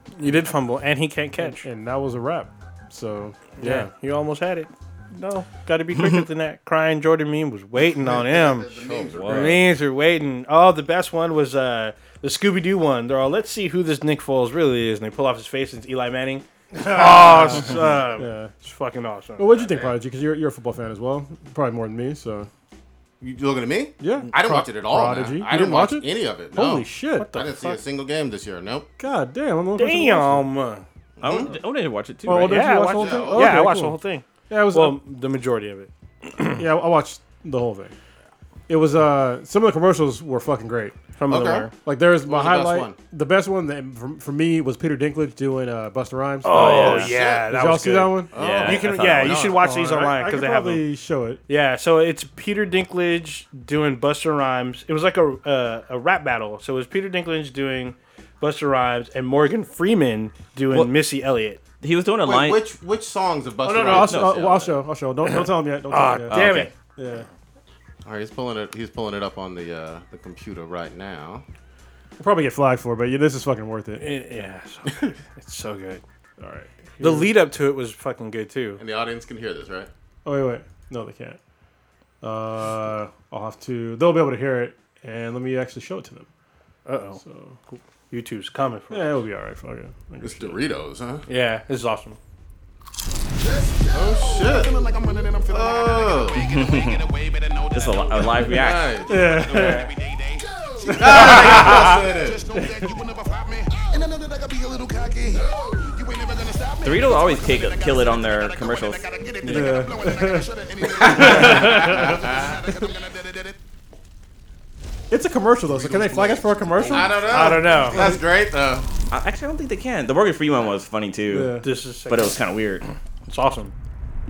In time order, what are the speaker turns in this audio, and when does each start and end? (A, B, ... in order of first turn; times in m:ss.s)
0:00.2-0:01.6 A
0:01.4-0:03.9 B
0:03.6-0:19.7 A
0:08.0-0:09.6 C
0:08.9-0:09.6 D
0:16.8-0:18.5 B
0:19.4-0:22.5 B
0:19.6-0:19.9 C
0:23.2-0:28.9 C
0:24.0-0:27.3 B
0:27.2-0:27.8 A
0:29.0-0:30.5 B
0:29.8-0:30.8 A
0:31.2-0:31.5 C
0:31.2-0:32.6 D
0:32.3-0:34.0 B
0:32.3-0:36.6 A
0:32.9-0:33.7 C
0:34.5-0:35.0 B
0:36.5-0:38.0 B
0:38.7-0:41.0 B
0:41.2-0:41.7 A
0:41.3-0:41.7 C
0:41.8-0:48.3 B
0:42.2-0:43.0 C
0:46.4-0:50.8 A
0:46.6-0:47.1 D
0:46.9-0:47.5 C
0:48.3-0:49.6 C
0:48.4-0:49.5 D
0:49.6-0:51.4 B
0:51.5-1:01.6 A
1:01.8-1:02.6 D
1:02.2-1:04.8 C
1:03.7-1:04.1 A
1:03.7-1:06.4 B
1:04.1-1:04.4 D
1:05.9-1:06.7 A
1:06.3-1:06.7 D
1:07.0-1:07.3 B
1:08.0-1:11.4 C
1:12.2-1:14.1 B
1:14.0-1:16.0 A
1:16.4-1:17.3 B
1:17.0-1:18.8 A
1:18.8-1:19.9 C
1:20.2-1:21.4 B
1:22.2-1:26.3 B
1:26.9-1:29.1 A
1:27.2-1:27.6 B
1:28.9-1:30.6 B
1:30.2-1:31.3 C
1:31.3-1:32.2 A
1:33.4-1:53.6 E
1:33.9-1:34.8 C
1:35.5-1:36.5 C
1:36.4-1:37.0 D
1:37.7-1:39.0 D
1:38.4-1:39.3 C
1:39.1-1:39.9 B
1:40.9-1:42.4 C
1:42.5-1:42.9 B
1:46.8-1:49.8 D
1:49.5-1:50.5 B
1:51.0-1:52.3 B
1:51.0-1:52.5 C
1:55.1-1:58.2 B
1:55.7-1:58.9 C
1:57.0-1:58.1 A
1:59.1-2:01.5 D
2:01.3-2:01.7 B
2:01.6-2:02.4 A
2:02.1-2:02.9 D
2:03.3-2:03.7 A